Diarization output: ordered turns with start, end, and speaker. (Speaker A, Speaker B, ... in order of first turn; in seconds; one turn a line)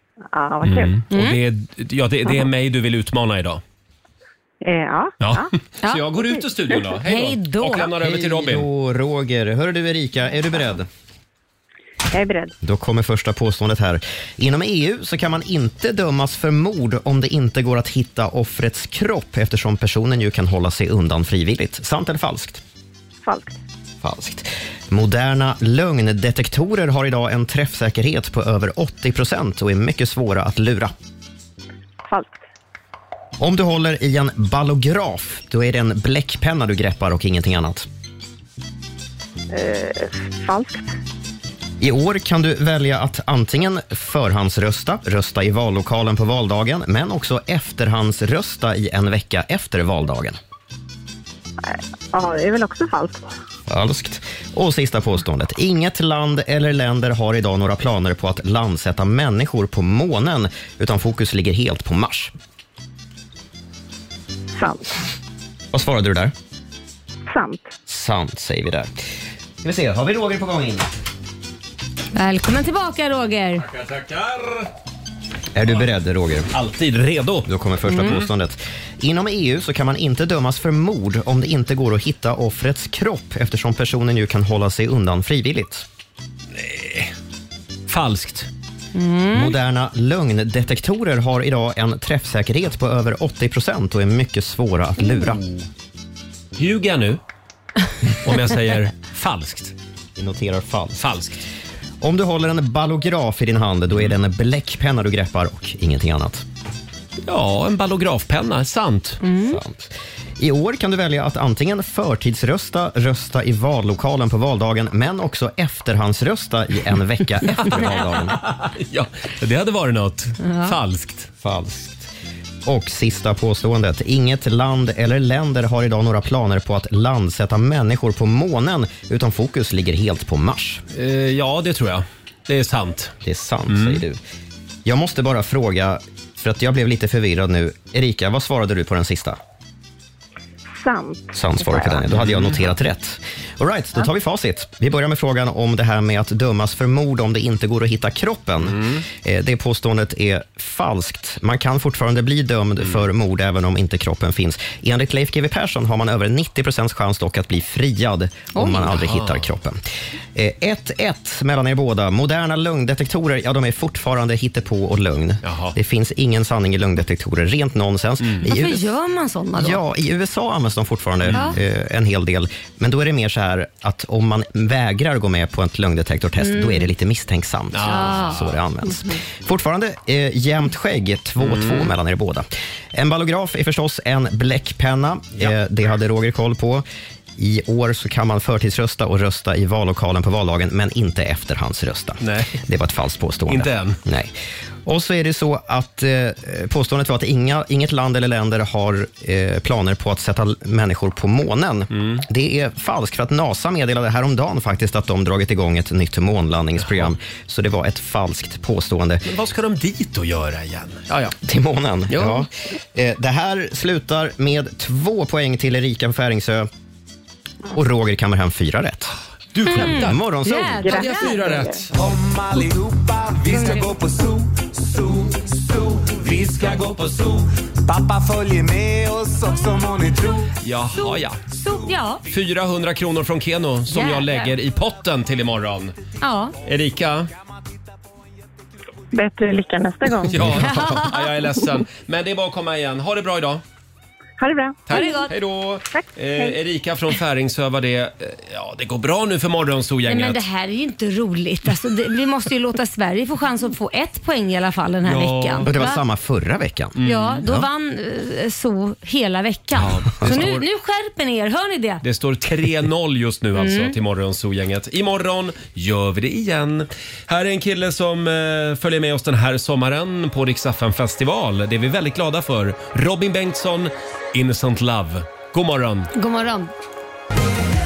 Speaker A: 0.3-1.0
Speaker B: 0.6-3.6
Speaker C: 1.1-1.4
Speaker A: 4.6-5.5
Speaker B: 5.2-8.7
Speaker C: 7.0-7.9
Speaker D: 7.9-10.9
Speaker A: 12.1-12.5
Speaker D: 12.6-22.6
Speaker A: 23.2-23.6
Speaker D: 24.0-30.9
Speaker A: 32.0-32.4
Speaker D: 33.4-37.9
Speaker A: 39.5-40.9
Speaker D: 41.8-50.4
Speaker A: 51.6-53.2
Speaker D: 53.7-62.3
Speaker A: 64.5-65.0
Speaker D: 65.7-66.3
Speaker A: 67.2-67.7
Speaker D: 67.9-68.9
Speaker D: 69.6-70.9
Speaker C: 72.1-73.7
Speaker B: 73.7-74.7
Speaker D: 75.5-76.5
Speaker B: 76.5-77.5
Speaker D: 77.5-85.9
Speaker C: 77.9-78.2
Speaker B: 78.0-78.3
Speaker B: 86.5-87.1
Speaker B: 87.9-88.5
Speaker C: 88.9-89.5
Speaker D: 89.3-95.5
Speaker B: 96.6-97.2
Speaker B: 98.2-99.7
Speaker D: 100.2-101.0
Speaker B: 101.0-101.4
Speaker D: 102.0-106.4
Speaker B: 107.2-109.2
Speaker C: 109.2-109.6
Speaker D: 109.4-118.4
Speaker B: 117.6-121.3
Speaker C: 120.4-120.7
Speaker D: 121.4-122.1
Speaker D: 122.6-130.8
Speaker B: 130.9-133.1
Speaker D: 133.2-134.2
Speaker B: 133.7-134.0
Speaker D: 134.8-139.4
Speaker A: 140.7-142.1
Speaker D: 141.3-159.8
Speaker B: 142.1-142.6
Speaker B: 148.7-149.0
Speaker C: 158.5-158.9
Speaker B: 158.9-159.4
Speaker D: 160.3-168.9
Speaker B: 165.4-165.7
Speaker C: 168.4-169.8
Speaker D: 169.6-186.8
Speaker B: 171.2-171.5
Speaker C: 176.4-176.9
Speaker B: 177.7-178.6
Speaker C: 177.8-178.4
Speaker B: 181.4-181.9
Speaker D: 187.4-194.3
Speaker B: 192.2-192.6
Speaker B: 193.5-194.0
Speaker D: 194.8-209.3
Speaker B: 201.9-202.2
Speaker B: 206.8-207.1
Speaker B: 209.2-211.3
Speaker D: 211.4-216.7
Speaker B: 212.1-212.4
Speaker D: 217.7-219.1
Speaker B: 219.5-220.2
Speaker C: 219.7-221.4
Speaker D: 219.7-220.9
Speaker A: 220.8-221.8
Speaker B: 220.9-221.9
Speaker E: 221.9-230.4
Speaker C: 223.5-223.9
Speaker B: 230.6-231.4
Speaker C: 230.9-232.2
Speaker B: 232.3-235.9
Speaker C: 233.9-234.5
Speaker C: 236.2-236.5
Speaker B: 236.6-237.3
Speaker A: 239.1-240.6
Speaker B: 240.3-243.6
Speaker C: 240.5-241.3
Speaker A: 244.4-245.1
Speaker B: 244.9-250.4
Speaker C: 244.9-245.3
Speaker A: 245.9-246.6
Speaker C: 250.1-256.0
Speaker B: 255.0-255.7
Speaker D: 255.6-257.6
Speaker B: 257.0-257.5
Speaker C: 257.0-262.0
Speaker B: 259.8-260.6
Speaker B: 262.0-276.1
Speaker C: 263.6-263.9
Speaker C: 276.1-276.7